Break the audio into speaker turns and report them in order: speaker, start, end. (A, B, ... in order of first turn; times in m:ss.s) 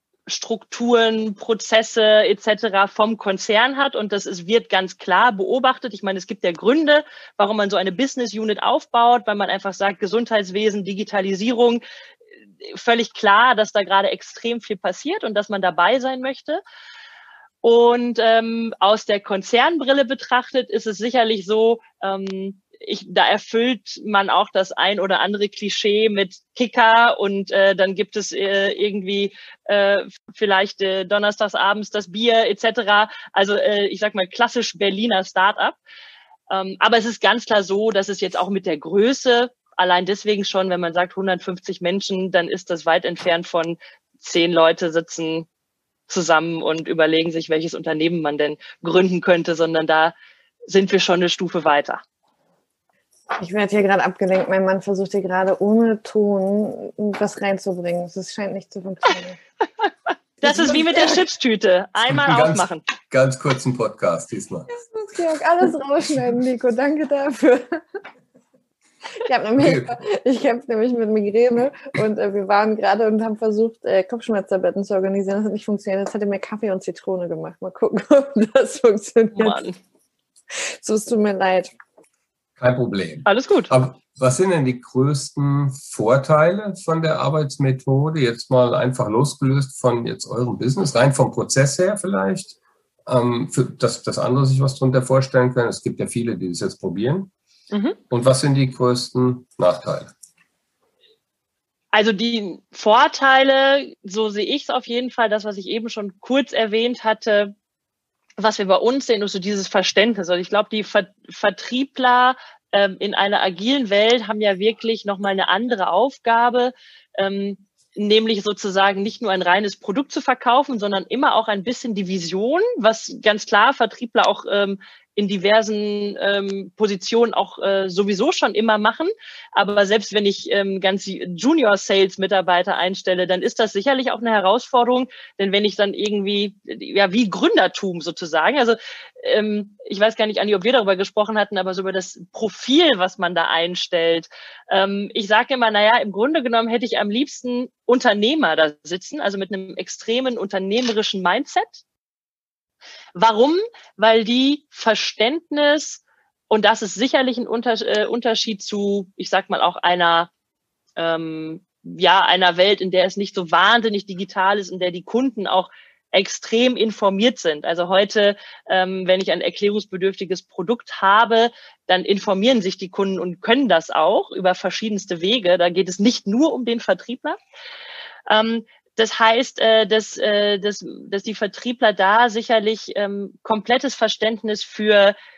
0:00.3-0:11.8 A
0:12.6-0:16.6 A
0:17.6-0:35.8 A
0:36.5-0:45.5 A
0:46.1-0:50.2 A
0:50.7-0:52.0 A
0:53.4-0:59.4 B
1:00.4-1:02.8 A
1:00.4-1:01.2 B
1:02.1-1:04.7 C
1:04.9-1:07.8 B
1:09.2-1:19.6 B
1:09.6-1:09.9 C
1:19.4-1:19.8 A
1:20.7-1:21.7 B
1:22.6-1:37.3 C
1:23.3-1:23.7 A
1:37.7-1:38.0 A
1:38.1-1:40.1 C
1:41.9-1:47.5 A
1:48.4-2:31.8 A
2:33.2-2:40.3 A
2:41.0-2:57.4 A
2:58.3-3:05.2 A